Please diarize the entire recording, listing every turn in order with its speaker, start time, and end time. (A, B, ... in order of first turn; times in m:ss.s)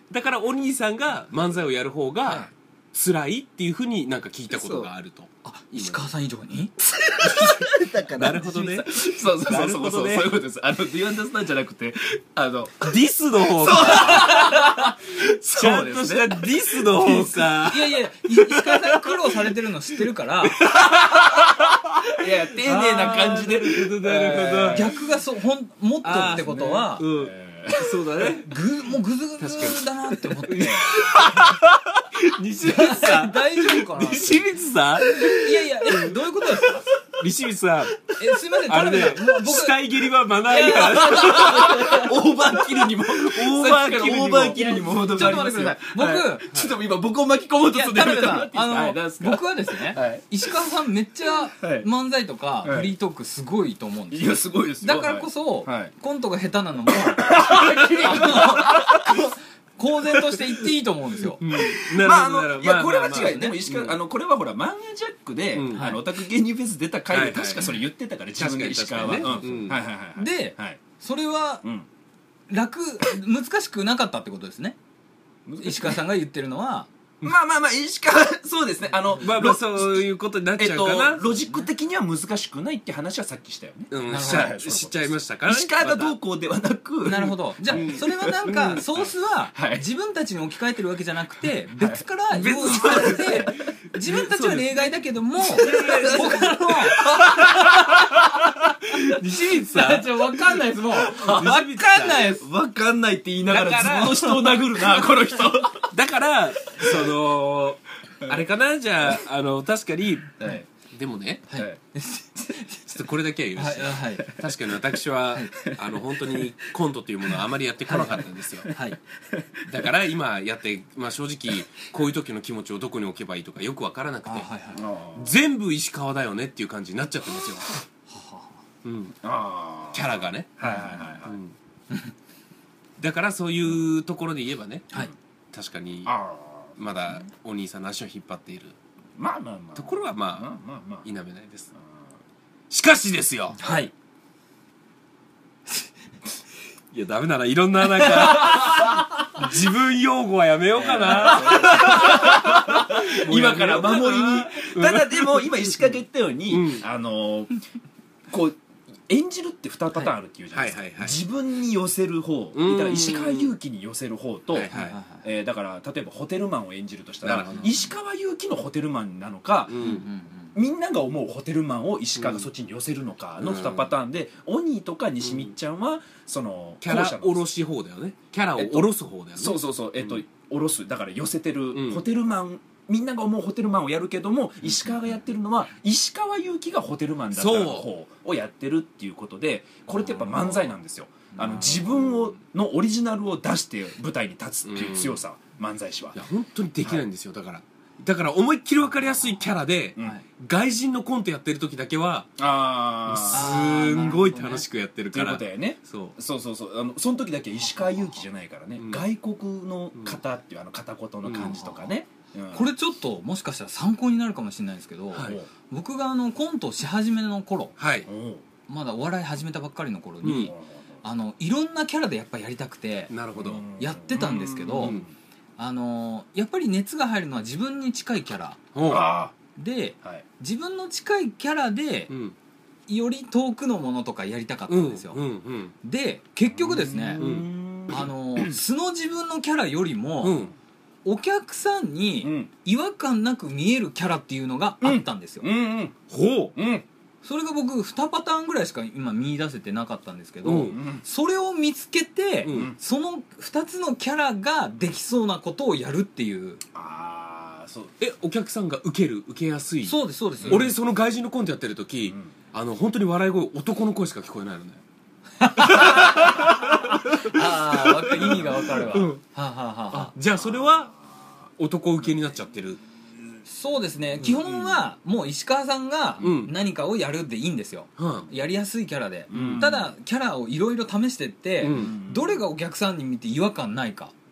0:00.1-0:06.0 A
0:02.2-0:02.5 B
0:05.4-0:07.7 B
0:07.2-0:17.3 C
0:07.3-0:10.3 A
0:12.8-0:14.7 A
0:13.7-0:14.9 B
0:15.5-0:19.1 A
0:17.2-0:20.6 B
0:20.4-0:24.9 A
0:22.1-0:24.9 C
0:24.7-0:27.0 B
0:26.0-0:28.5 A
0:27.0-0:28.0 C
0:28.3-0:31.2 B
0:29.4-0:36.1 A
0:32.6-0:34.4 B
0:35.0-0:36.9 B
0:37.1-0:42.1 A
0:38.2-0:39.9 B
0:40.5-0:42.1 B
0:41.0-0:50.2 C
0:42.8-0:45.3 A
0:44.7-0:46.5 B
0:47.7-1:01.4 B
0:51.6-0:51.9 C
0:52.6-0:52.9 C
0:54.1-0:55.9 C
0:57.0-0:59.3 C
1:01.4-1:04.0 A
1:01.4-1:10.8 C
1:03.1-1:03.6 B
1:05.5-1:06.0 A
1:05.7-1:06.0 B
1:07.1-1:07.8 A
1:08.4-1:09.8 A
1:10.1-1:11.6 B
1:12.5-1:14.8 B
1:15.4-1:16.0 C
1:15.6-1:16.9 B
1:17.2-1:29.0 C
1:19.1-1:21.3 A
1:23.9-1:26.1 A
1:24.0-1:24.6 B
1:27.0-1:37.0 B
1:27.7-1:28.8 A
1:29.5-1:29.8 C
1:31.7-1:33.5 C
1:32.3-1:33.5 A
1:34.1-1:34.8 A
1:35.4-1:40.4 A
1:35.4-1:39.0 C
1:39.6-1:42.4 B
1:40.9-1:41.6 C
1:41.1-1:42.3 A
1:42.1-1:45.9 C
1:43.5-1:44.6 A
1:45.9-1:51.4 A
1:46.8-1:47.1 C
1:51.5-1:52.9 B
1:52.9-1:58.7 A
1:53.6-1:54.3 B
1:55.6-1:56.5 C
1:57.9-1:58.8 C
1:57.9-1:58.2 B
1:58.7-1:59.0 B
1:59.3-1:59.6 C
1:59.6-2:04.5 A
2:04.2-2:04.8 B
2:04.7-2:05.3 C
2:05.2-2:07.8 A
2:08.1-2:08.6 B
2:08.8-2:09.2 A
2:09.2-2:11.4 C
2:09.9-2:11.5 A
2:10.6-2:11.1 B
2:13.0-2:14.9 A
2:15.5-2:16.1 A
2:16.0-2:16.8 C
2:16.8-2:18.8 A
2:19.2-2:21.0 C
2:19.7-2:21.7 A
2:22.7-2:23.6 A
2:23.6-2:23.9 B
2:26.9-2:35.6 A
2:28.2-2:28.9 B
2:28.4-2:28.8 C
2:30.8-2:37.6 C
2:31.0-2:32.0 B
2:36.5-2:36.8 A
2:38.3-2:49.9 C
2:40.5-2:41.2 A
2:42.5-2:43.5 A
2:44.5-2:45.0 A
2:44.7-2:45.2 B
2:47.2-2:47.9 A
2:49.7-2:50.0 A
2:49.8-2:50.5 B
2:50.5-2:57.4 C
2:52.2-2:52.5 A
2:53.4-2:53.9 A
2:55.2-2:55.5 A
2:56.8-2:59.6 A
2:58.6-3:16.2 C
3:01.7-3:02.0 A
3:07.3-3:07.9 A
3:11.4-3:11.6 B
3:14.7-3:15.2 A
3:16.1-3:22.3 A
3:22.4-3:23.6 C
3:23.1-3:26.2 A
3:23.3-3:24.6 B
3:25.1-3:32.7 C
3:28.8-3:29.0 A
3:31.2-3:31.6 A
3:31.3-3:31.8 B
3:32.5-3:37.7 B
3:35.1-3:35.4 A
3:35.2-3:35.5 C
3:37.8-3:38.1 A
3:38.0-3:38.4 C
3:38.7-3:43.1 B
3:40.2-3:40.5 A
3:40.3-3:40.8 C
3:43.1-3:43.7 A
3:43.3-3:45.1 C
3:43.8-3:45.0 B
3:45.6-3:48.6 B
3:48.7-3:49.1 A
3:48.8-3:49.3 C
3:49.6-3:52.1 B
3:52.1-3:52.3 A
3:52.9-3:55.2 B
3:54.7-3:55.7 A
3:55.8-3:57.3 B
3:56.5-3:58.6 C
3:57.2-3:57.5 A
3:57.9-4:00.4 B
4:00.2-4:00.5 A
4:01.0-4:05.5 B
4:02.2-4:02.5 C
4:04.8-4:06.0 C
4:06.1-4:06.5 A
4:06.5-4:06.8 C
4:07.2-4:16.6 B
4:10.4-4:10.8 A
4:10.7-4:11.0 C
4:12.4-4:12.7 A
4:12.5-4:12.7 C
4:16.7-4:17.9 C
4:18.0-4:24.8 A
4:19.8-4:20.7 B
4:20.4-4:20.7 C
4:25.4-4:30.1 B
4:25.6-4:29.2 A
4:28.2-4:28.8 C
4:29.9-4:30.9 A
4:30.4-4:30.8 C
4:31.6-4:32.8 A
4:33.5-4:44.1 B
4:34.2-4:34.8 A
4:36.2-4:36.5 A
4:38.0-4:38.3 A
4:39.3-4:39.9 C
4:39.3-4:39.7 A
4:41.6-4:42.0 A
4:41.7-4:42.4 C